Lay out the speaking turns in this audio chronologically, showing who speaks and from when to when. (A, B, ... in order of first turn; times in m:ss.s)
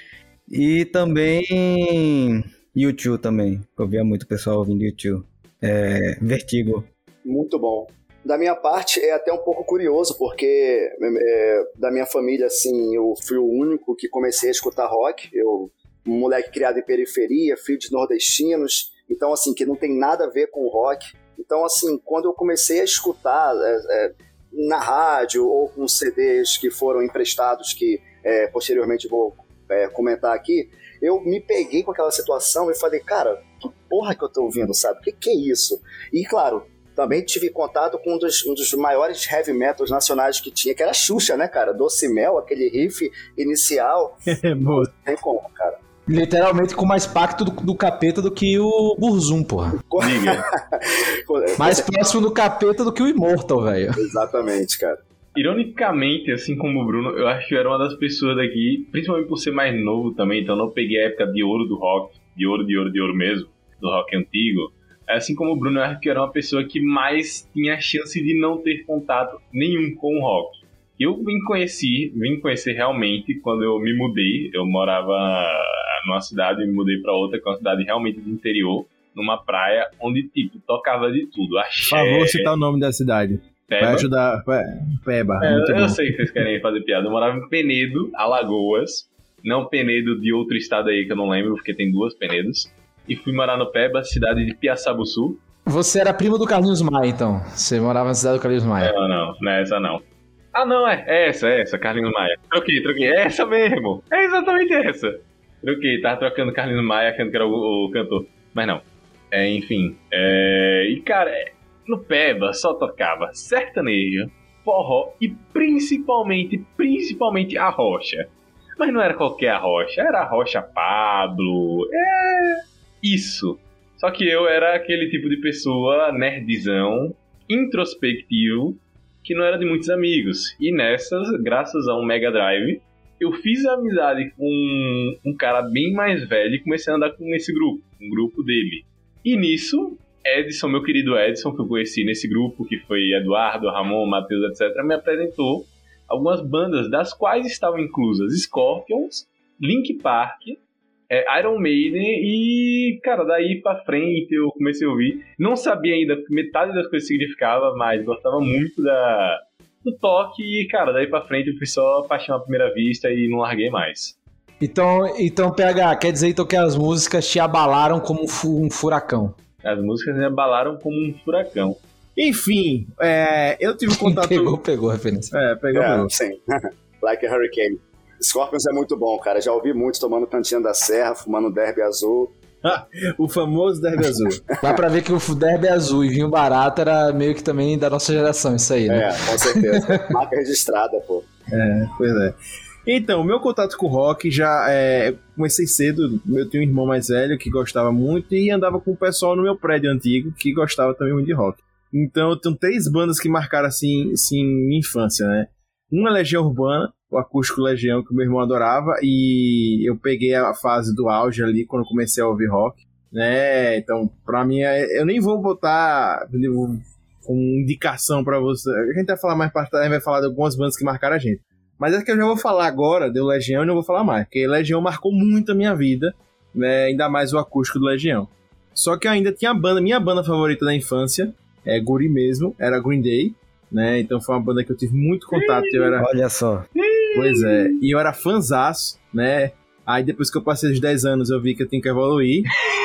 0:00.5-0:06.9 A
0:07.2-0:45.8 B
0:44.3-0:44.9 C
0:46.1-0:49.8 D
0:49.9-0:51.9 B
0:50.0-0:50.4 E
0:51.6-0:54.0 D
0:54.0-0:55.0 B
0:55.3-1:22.5 E
1:21.8-1:26.2 C
1:23.7-1:24.1 E
1:25.4-1:35.4 E
1:35.7-1:38.9 D
1:38.8-2:30.6 E
2:31.1-2:44.2 E
2:44.6-2:49.4 D
2:49.6-2:51.8 E
2:52.2-2:54.5 C
2:53.9-2:55.3 D
2:55.3-2:56.1 C
2:55.7-3:02.3 B
3:02.6-3:04.4 C
3:04.5-3:04.8 B
3:04.6-3:10.1 D
3:08.9-3:11.3 B
3:11.5-3:56.0 C
3:55.4-3:55.9 E
3:56.0-3:56.7 A
3:56.8-3:57.8 E
3:57.1-4:02.5 C